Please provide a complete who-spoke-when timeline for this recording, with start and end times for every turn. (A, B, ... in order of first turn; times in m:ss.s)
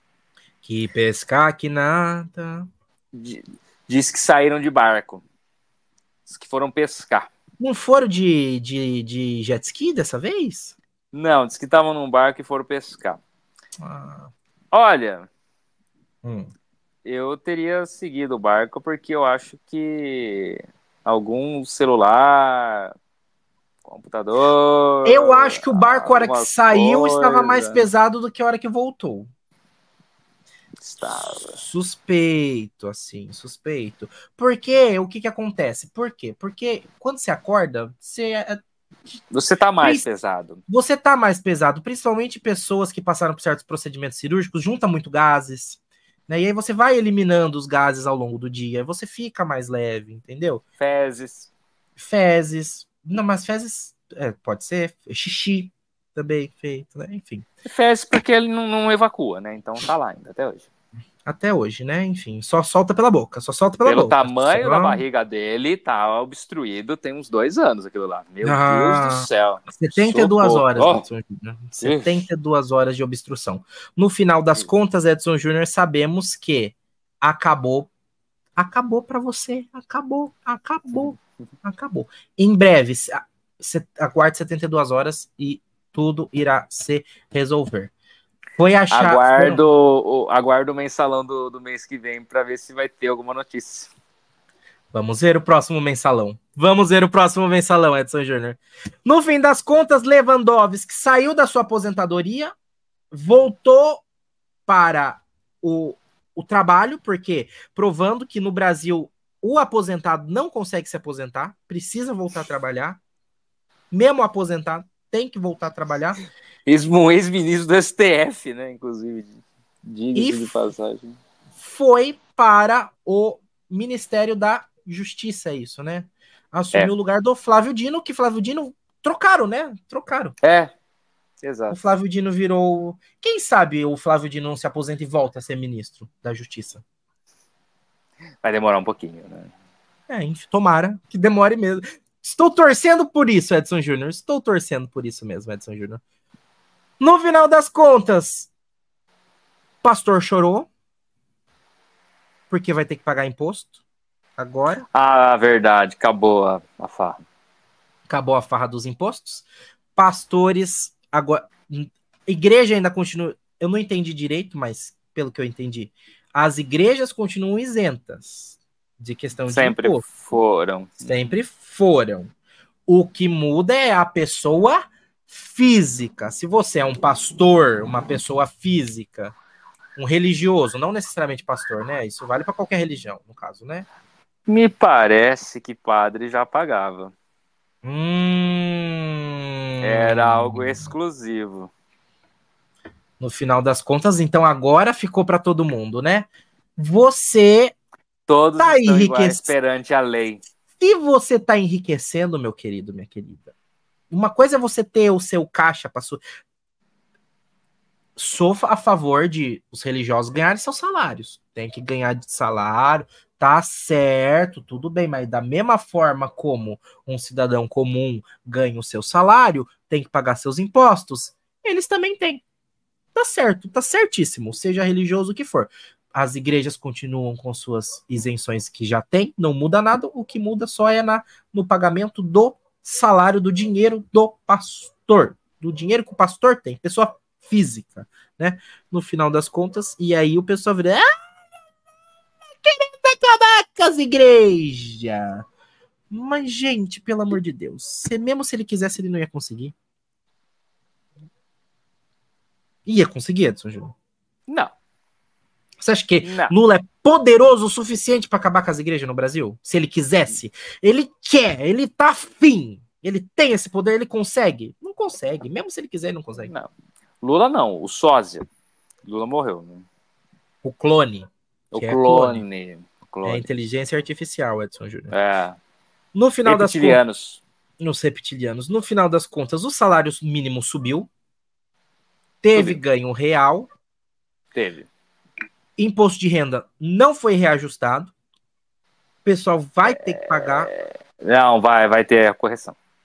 0:00.6-0:02.7 A
0:03.1-0:05.2 B
0:06.3-0:07.3 B
0:07.6-0:10.8 A
0:11.1-0:13.2 B
0:13.8-0:14.3 A
0:14.7-0:15.3 B
0:16.2-0:16.5 A
0:17.1-0:22.9 B
0:23.8-0:27.8 B
0:25.0-0:29.3 A
0:30.8-0:31.6 B
0:31.0-0:38.6 A
0:39.3-0:40.6 B
0:40.7-0:50.6 A
0:50.8-0:51.5 B
0:52.0-0:57.5 A
0:57.7-1:00.7 B
1:01.2-1:05.0 A
1:03.8-1:11.0 B
1:08.4-1:17.9 A
1:11.8-1:12.2 B
1:18.6-1:27.9 A
1:28.6-1:29.6 A
1:28.9-1:33.9 B
1:34.9-1:42.5 A
1:43.1-1:44.0 A
1:44.7-1:53.0 A
1:53.9-1:56.2 A
1:56.7-2:01.2 B
2:00.2-2:00.6 A
2:01.6-2:10.4 A
2:10.4-2:10.7 B
2:11.4-2:11.8 B
2:11.7-2:16.8 A
2:18.4-2:19.5 B
2:20.1-2:26.0 A
2:27.0-2:28.5 A
2:29.8-2:30.7 A
2:32.5-2:33.8 A
2:34.4-2:34.9 A
2:34.9-2:37.2 B
2:38.1-2:50.0 A
2:49.5-2:51.3 B
2:51.0-2:52.3 A
2:52.9-2:59.4 A
3:00.0-3:03.9 A
3:04.5-3:07.1 B
3:07.8-3:10.9 A
3:09.8-3:11.7 B
3:13.2-3:17.8 A
3:18.3-3:20.4 B
3:18.6-3:19.5 A
3:20.8-3:23.5 A
3:24.1-3:26.2 A
3:28.2-3:42.4 A
3:43.2-4:01.0 A
4:02.6-4:05.4 A
4:06.1-4:09.7 A
4:12.9-4:13.9 A
4:14.5-4:14.7 B
4:15.8-4:26.5 A
4:16.2-4:16.5 B
4:26.4-4:26.7 B
4:27.2-4:28.5 B
4:29.1-4:29.9 B
4:30.6-4:32.4 A
4:31.7-4:33.5 B
4:33.3-4:35.1 A
4:35.1-4:35.6 B
4:36.1-4:37.0 A
4:36.4-4:37.4 B
4:37.8-4:41.1 A
4:42.4-4:43.7 A
4:44.6-4:44.9 B
4:45.8-4:48.1 A
4:49.2-4:50.7 A
4:49.9-4:52.8 B